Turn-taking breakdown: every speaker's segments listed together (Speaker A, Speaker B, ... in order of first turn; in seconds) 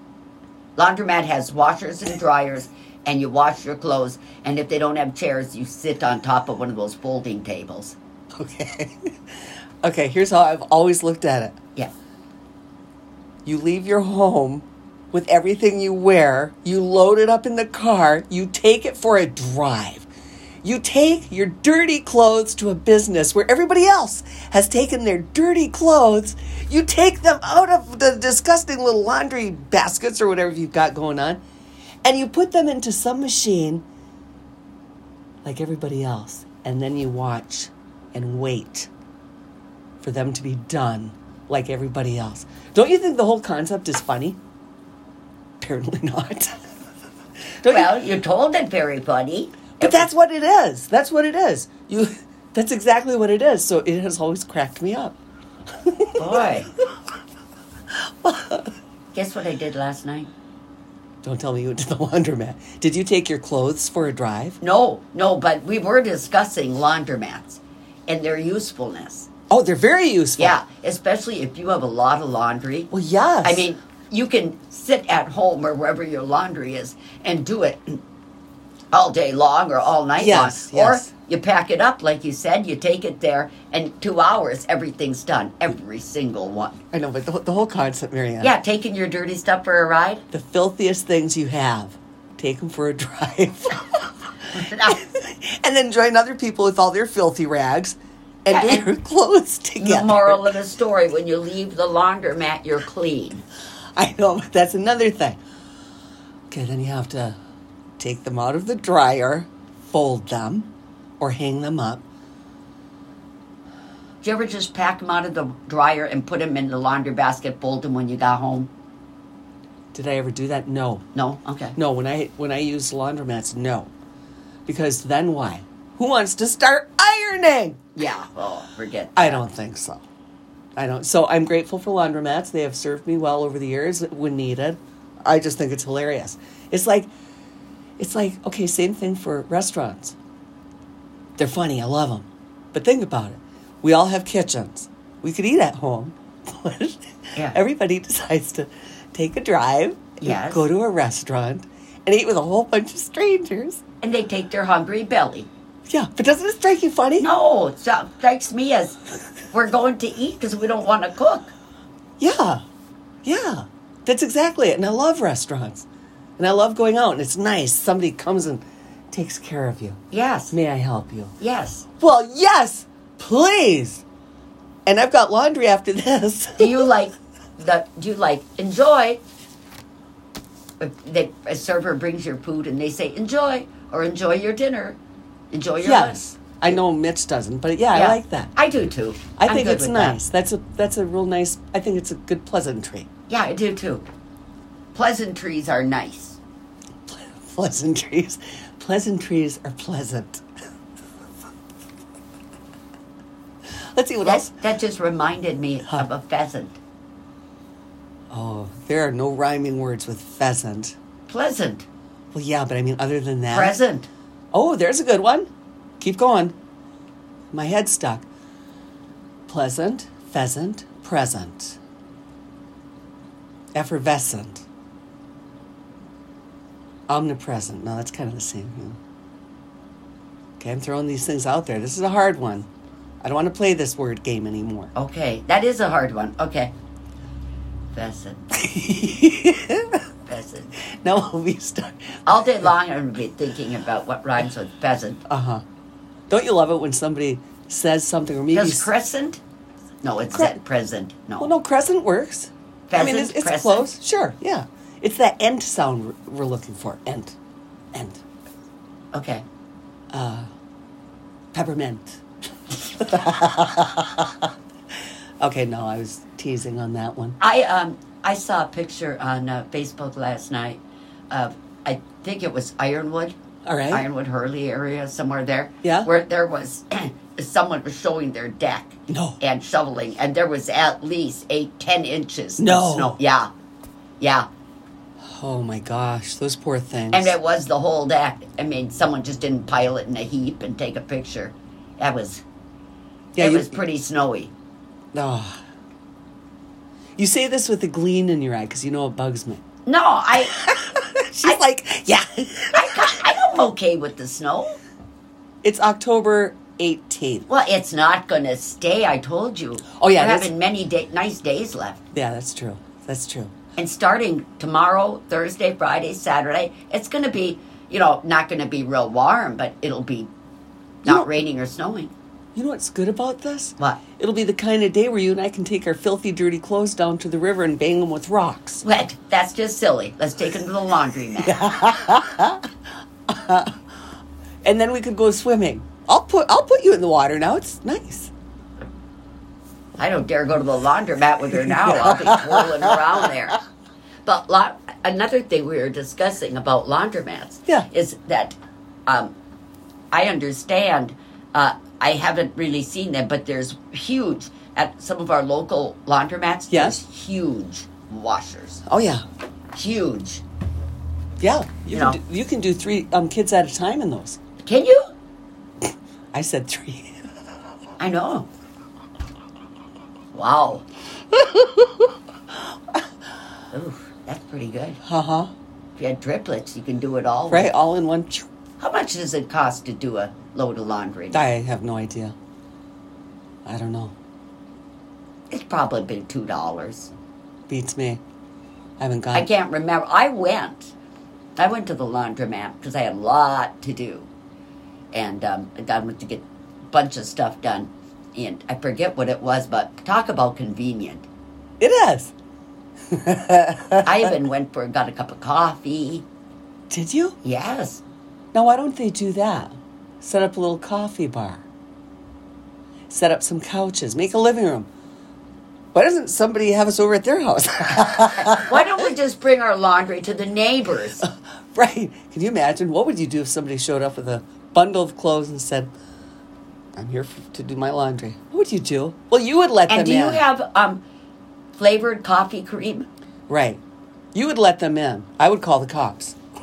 Speaker A: 0.8-8.0, 47.7-50.1, 56.1-56.7, 59.1-60.3, 64.6-69.3, 70.4-72.9, 73.4-78.0, 78.9-86.8, 88.4-90.2, 94.5-95.0, 98.5-98.8, 99.8-103.4, 114.2-118.7, 121.1-121.8, 127.9-129.4, 150.2-150.6, 154.0-155.5, 157.2-161.5, 170.1-170.5, 171.4-171.8, 176.6-179.2, 180.8-185.0, 185.5-186.3, 187.9-190.2, 193.3-194.0, 194.9-196.4, 204.2-206.8, 211.3-211.8, 213.5-214.1, 234.9-236.7, 237.9-238.5, 240.2-240.7, 242.2-245.2, 248.5-249.4, 250.0-251.5, 252.9-253.9, 259.1-259.4, 267.4-273.4, 273.9-283.5, 284.2-284.5, 287.1-292.4, 293.4-294.5, 299.9-300.6, 302.7-304.8, 307.5-312.0, 313.8-320.3, 321.0-322.1, 328.8-331.6, 340.0-343.6, 344.2-349.3, 350.1-358.8, 359.7-360.4, 361.9-362.2, 364.6-365.1, 368.0-368.5, 370.3-370.8, 373.7-375.0, 376.0-377.7, 378.8-381.5, 385.5-387.1, 389.3-390.9, 391.6-394.3, 395.1-401.3, 404.0-406.2, 407.4-408.0, 418.4-421.2, 429.9-431.0, 431.8-433.1
Speaker B: 8.3-8.9, 9.8-11.6, 13.4-20.1, 20.6-31.4, 32.0-33.8, 35.4-38.9, 40.0-44.4, 45.6-46.6, 47.6-48.0, 49.8-55.2, 55.8-56.4, 58.2-58.7, 61.2-64.6, 69.5-70.6, 72.9-73.7, 80.2-81.1, 86.9-88.5, 90.3-94.1, 94.9-100.5, 104.0-105.4, 106.5-107.3, 108.0-112.0, 119.9-121.0, 121.8-123.9, 124.7-127.8, 129.2-130.0, 130.8-137.1, 138.0-140.2, 141.4-153.8, 155.9-157.3, 162.2-162.6, 163.2-165.8, 166.4-170.0, 170.5-171.3, 172.0-174.0, 174.8-176.9, 185.8-188.5, 189.4-193.1, 197.1-200.4, 203.9-204.5, 208.3-210.9, 212.3-213.8, 214.5-215.5, 216.0-216.5, 217.5-218.2, 219.5-221.8, 223.7-224.6, 227.1-229.0, 230.6-232.7, 233.2-234.9, 238.5-240.0, 241.0-242.2, 245.3-245.6, 246.3-248.9, 250.3-250.6, 251.4-257.4, 257.9-258.2, 260.1-260.5, 261.5-264.5, 265.4-267.4, 273.6-274.1, 275.8-276.1, 279.1-279.4, 282.6-283.1, 285.3-287.3, 293.4-293.7, 295.1-295.6, 297.2-299.6, 300.6-303.2, 305.6-307.5, 310.0-310.5, 312.1-313.5, 322.5-328.8, 331.4-332.6, 333.3-333.7, 334.6-338.3, 341.6-342.4, 356.7-357.0, 358.9-359.2, 361.4-364.4, 366.3-367.2, 371.6-371.8, 375.1-375.5, 377.5-378.4, 381.3-382.3, 383.6-384.1, 387.7-388.2, 389.0-389.5, 401.8-402.3, 403.1-404.2, 406.9-407.4, 408.5-411.6, 413.1-414.9, 415.9-419.0, 421.2-425.9, 426.9-430.4, 433.5-433.8, 434.3-436.4